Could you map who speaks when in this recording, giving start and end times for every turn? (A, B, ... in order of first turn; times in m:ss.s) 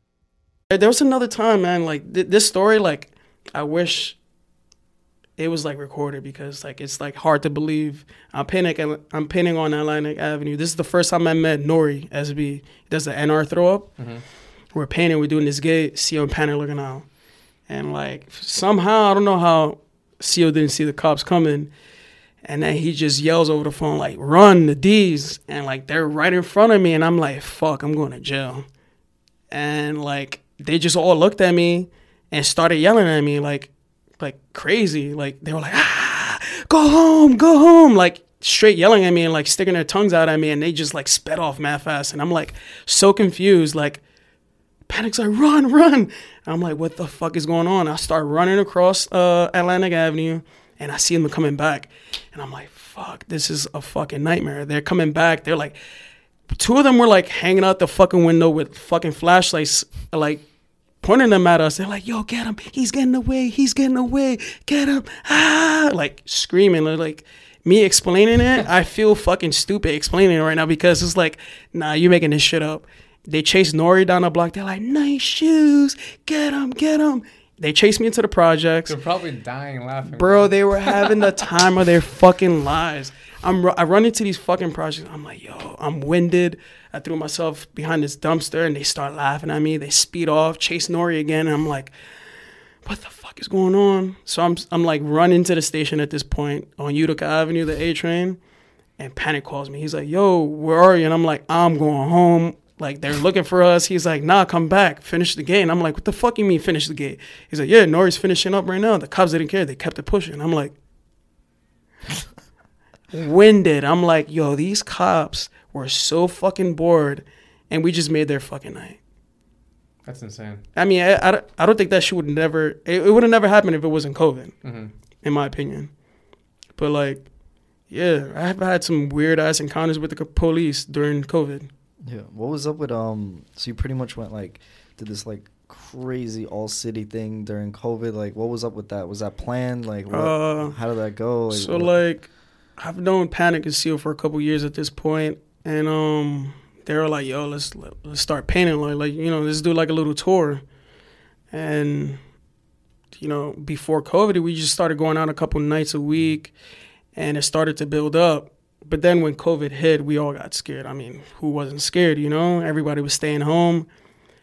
0:00.7-0:04.2 A
0:05.4-0:14.0 A
0:14.0-0:14.2 B
0:14.7-0:17.1 A
0:17.7-0:21.7 A
0:22.4-0:28.6 A
0:29.5-0:44.0 A
0:44.9-0:55.8 A
0:56.6-1:00.4 A
1:01.0-1:18.9 A
1:18.8-1:21.1 B
1:20.0-1:31.9 A
1:32.8-1:38.4 A
1:39.0-1:50.7 A
1:53.1-1:59.0 A
2:00.0-2:00.6 B
2:00.7-2:04.6 A
2:04.6-2:04.9 B
2:05.2-2:05.9 A
2:06.8-2:07.3 A
2:07.9-2:11.7 A
2:12.0-2:22.0 C
2:20.1-2:20.8 A
2:21.5-2:30.6 A
2:31.5-2:32.2 A
2:33.1-2:36.5 A
2:37.1-2:43.9 A